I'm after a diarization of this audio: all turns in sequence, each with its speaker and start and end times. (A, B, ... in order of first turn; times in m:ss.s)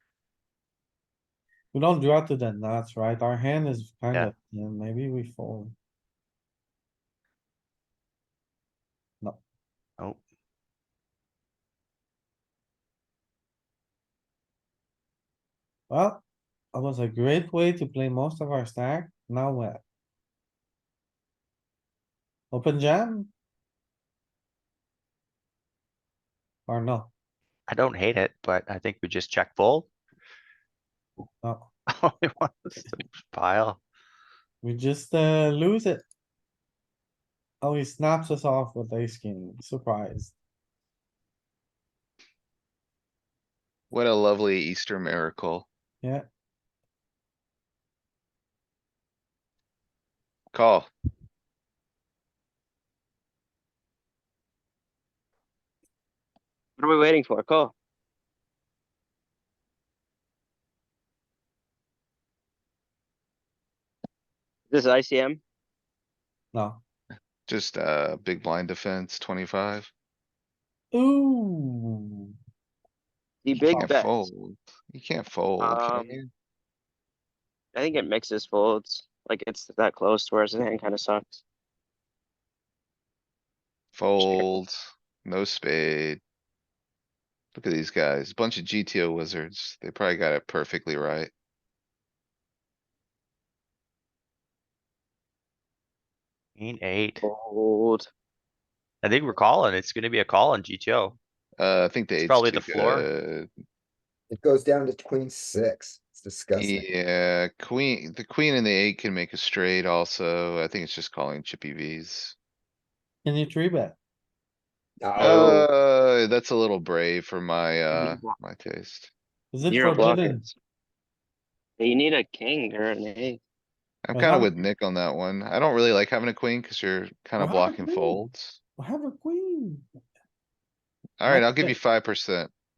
0:01.7-0:05.7 A
0:15.9-0:19.8 A
0:22.5-0:23.3 A
0:26.7-0:27.1 A
0:27.7-0:29.9 B
0:31.4-0:31.7 A
0:31.9-0:33.8 B
0:34.6-0:36.0 A
0:37.6-0:40.3 A
0:43.9-0:45.7 C
0:50.5-0:50.9 C
0:56.8-0:57.7 D
1:04.7-1:05.4 D
1:06.5-1:06.8 A
1:07.5-1:09.9 C
1:10.9-1:12.3 A
1:13.4-1:14.2 D
1:13.5-1:16.3 C
1:15.6-1:16.2 D
1:17.7-1:21.4 D
1:23.9-1:26.2 C
1:24.2-1:24.5 B
1:27.5-1:31.3 C
1:36.6-1:37.2 B
1:37.2-1:38.1 D
1:39.0-1:41.2 B
1:41.6-1:43.5 C
1:42.2-1:43.1 B
1:44.3-1:46.9 E
1:46.6-1:52.4 C
1:53.2-1:54.0 A
1:55.0-1:55.7 E
1:55.2-1:59.1 C
1:58.0-1:58.3 D
1:59.5-2:00.4 A
1:59.7-2:00.5 D
2:01.8-2:03.4 D
2:04.0-2:08.6 C
2:04.1-2:04.5 A
2:07.4-2:08.2 A
2:08.8-2:09.8 A
2:11.2-2:12.5 C
2:11.2-2:11.8 A